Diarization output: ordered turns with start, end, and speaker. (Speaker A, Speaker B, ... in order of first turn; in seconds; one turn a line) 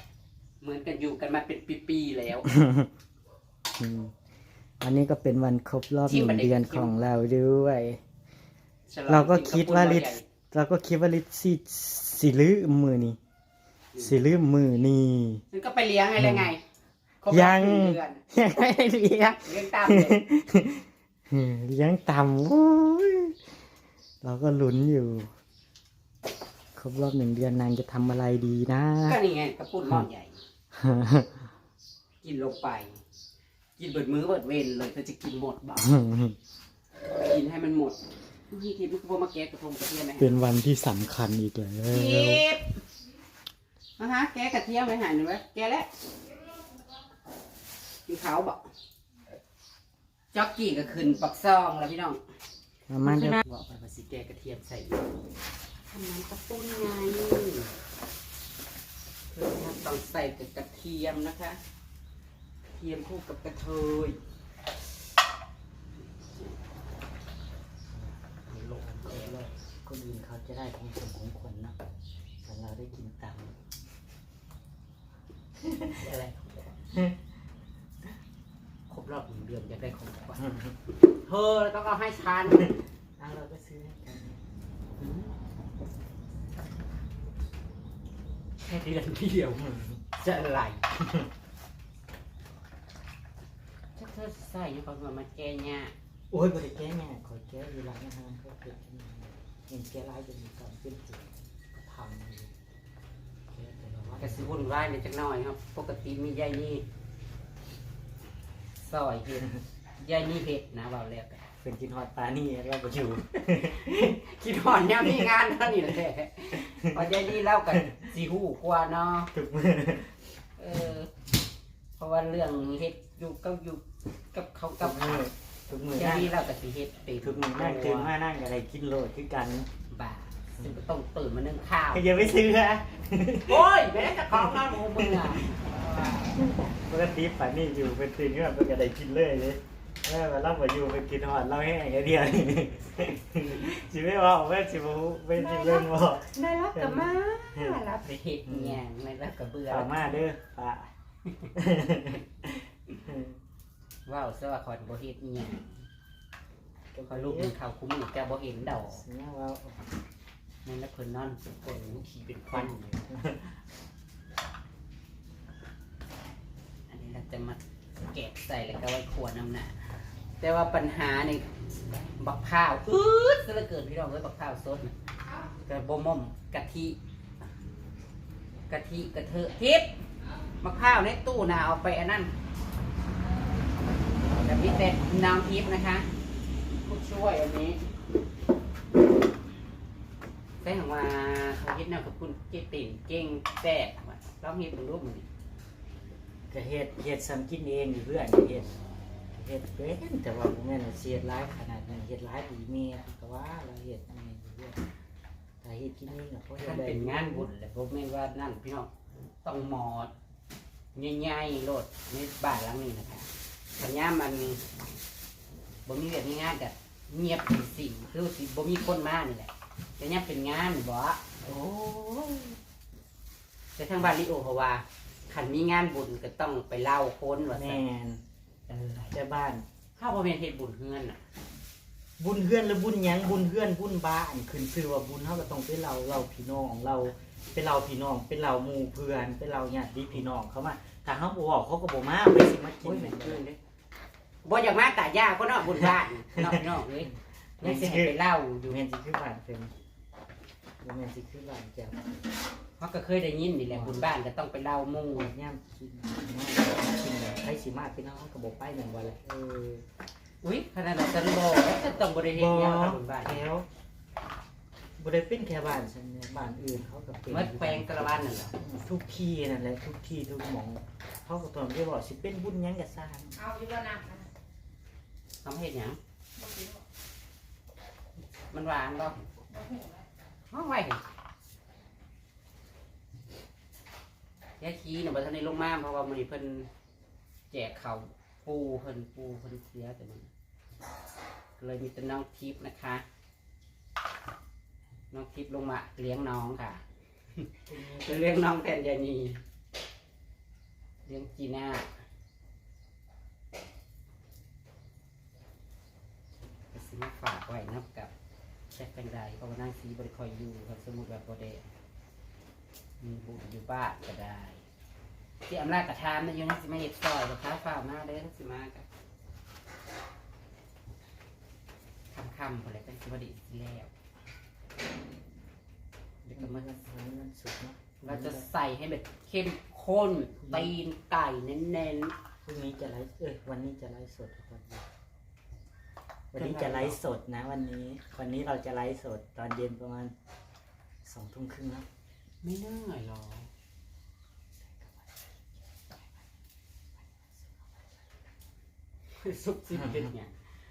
Speaker A: 0.6-2.5
Speaker B: 2.4-2.9
Speaker B: 3.8-4.1
Speaker B: 4.8-8.0
Speaker A: 6.0-6.9
Speaker A: 8.9-10.2
Speaker B: 9.1-13.2
Speaker B: 14.0-15.4
Speaker A: 15.5-16.6
Speaker B: 16.2-16.5
Speaker A: 17.2-18.2
Speaker B: 17.3-23.4
Speaker A: 19.4-20.2
Speaker B: 24.2-25.3
Speaker B: 26.8-29.2
Speaker A: 29.0-30.4
Speaker B: 30.7-31.4
Speaker A: 32.2-33.0
Speaker A: 33.8-35.9
Speaker B: 35.8-36.4
Speaker A: 37.1-38.0
Speaker A: 38.5-40.4
Speaker B: 40.2-42.4
Speaker A: 41.9-42.8
Speaker A: 44.0-45.9
Speaker A: 48.1-48.7
Speaker A: 50.3-52.2
Speaker B: 52.9-53.4
Speaker A: 53.2-55.0
Speaker A: 55.8-57.7
Speaker A: 59.3-61.6
Speaker A: 62.7-64.2
Speaker B: 67.9-68.2
Speaker A: 68.5-69.4
Speaker B: 68.8-71.8
Speaker B: 72.4-73.5
Speaker B: 75.6-75.9
Speaker A: 75.9-76.8
Speaker A: 78.9-80.4
Speaker B: 80.4-80.7
Speaker A: 81.1-82.8
Speaker B: 83.2-84.4
Speaker A: 85.0-85.3
Speaker A: 88.6-90.9
Speaker B: 89.6-90.0
Speaker B: 91.0-91.3
Speaker A: 94.0-95.9
Speaker B: 96.3-102.5
Speaker B: 103.5-104.5
Speaker A: 104.2-106.8
Speaker A: 108.8-111.4
Speaker B: 111.6-114.2
Speaker A: 113.9-119.3
Speaker B: 115.0-115.3
Speaker B: 116.7-118.0
Speaker B: 119.3-120.2
Speaker A: 120.6-121.1
Speaker A: 122.0-125.2
Speaker B: 124.8-126.3
Speaker A: 126.0-128.1
Speaker B: 127.2-129.7
Speaker A: 129.9-132.4
Speaker B: 131.9-135.4
Speaker A: 133.4-136.4
Speaker B: 136.3-147.8
Speaker A: 145.3-150.0
Speaker B: 148.5-148.8
Speaker B: 149.7-150.9
Speaker B: 151.5-153.4
Speaker A: 154.1-155.8
Speaker B: 156.9-157.5
Speaker A: 157.1-159.0
Speaker B: 158.8-159.9
Speaker A: 160.6-163.0
Speaker B: 162.5-163.6
Speaker A: 166.9-169.8
Speaker A: 170.4-171.5
Speaker A: 172.2-174.9
Speaker A: 175.5-177.0
Speaker A: 178.7-180.0
Speaker A: 180.6-182.3
Speaker A: 184.3-186.1
Speaker A: 186.8-187.9
Speaker A: 190.6-195.3
Speaker B: 196.5-198.8
Speaker B: 199.3-204.8
Speaker B: 205.6-207.5
Speaker A: 206.6-208.9
Speaker A: 209.4-210.1
Speaker A: 210.9-214.6
Speaker A: 215.8-221.3
Speaker B: 221.4-222.6
Speaker A: 223.8-227.8
Speaker B: 227.5-228.2
Speaker A: 228.7-229.1
Speaker B: 229.1-229.6
Speaker A: 230.0-231.2
Speaker B: 232.2-243.4
Speaker A: 242.8-243.6
Speaker A: 244.4-248.8
Speaker B: 246.3-246.6
Speaker B: 247.6-249.8
Speaker B: 250.8-252.1
Speaker A: 252.8-255.3
Speaker B: 253.7-254.1
Speaker B: 255.1-259.8
Speaker A: 260.4-263.4
Speaker B: 262.3-263.6
Speaker B: 265.0-273.4
Speaker A: 267.3-268.5
Speaker C: 273.4-274.3
Speaker A: 275.4-276.0
Speaker C: 276.4-276.8
Speaker A: 278.5-279.3
Speaker C: 279.5-280.1
Speaker A: 280.5-281.0
Speaker A: 284.6-286.7
Speaker A: 287.5-290.3
Speaker A: 291.6-293.0
Speaker A: 295.1-296.8
Speaker B: 297.7-298.2
Speaker A: 298.0-299.4
Speaker A: 301.1-301.9
Speaker A: 306.7-308.1
Speaker A: 308.7-311.7
Speaker A: 313.0-314.6
Speaker A: 315.5-318.9
Speaker A: 322.1-323.9
Speaker A: 326.2-326.8
Speaker B: 326.3-328.4
Speaker A: 328.0-332.1
Speaker B: 330.4-330.7
Speaker B: 332.4-334.9
Speaker B: 336.3-340.1
Speaker A: 336.4-337.0
Speaker B: 341.0-341.9
Speaker A: 342.4-343.5
Speaker B: 344.6-345.3
Speaker B: 347.0-347.5
Speaker A: 349.2-350.3
Speaker B: 349.8-350.1